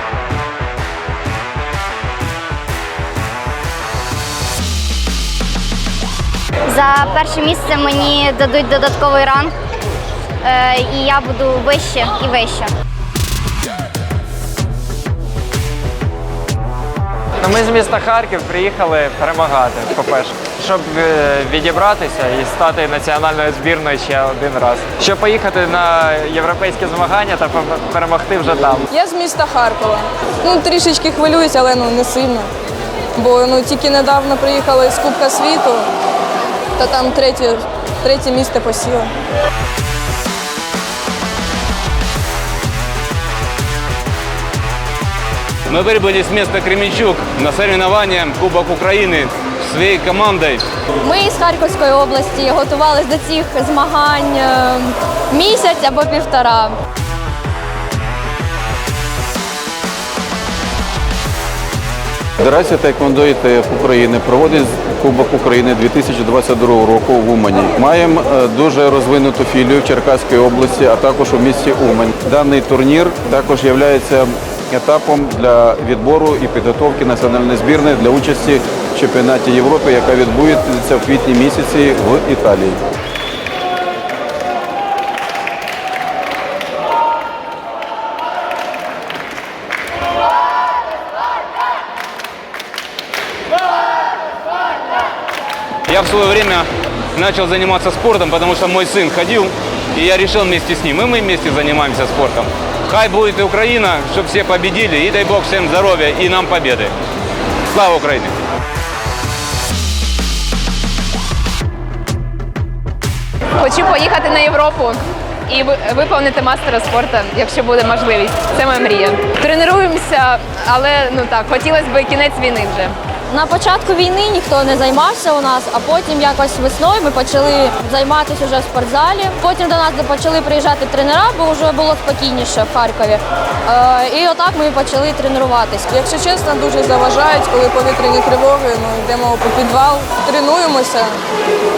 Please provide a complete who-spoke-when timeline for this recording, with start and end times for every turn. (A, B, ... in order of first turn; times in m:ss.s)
0:06.7-0:09.5 A
0:10.4-0:12.7 A
0:17.4-0:28.9 B
0:28.9-0:32.5 C
0:33.2-0:35.9 C
0:36.8-0:39.1 C
0:45.7-0:50.6 D
0:51.0-0:56.7 E
1:02.4-1:22.8 F
1:35.9-1:46.9 D
1:47.7-1:48.3 D
1:53.6-2:03.0 G
2:03.3-2:15.9 E
2:15.9-2:21.2 C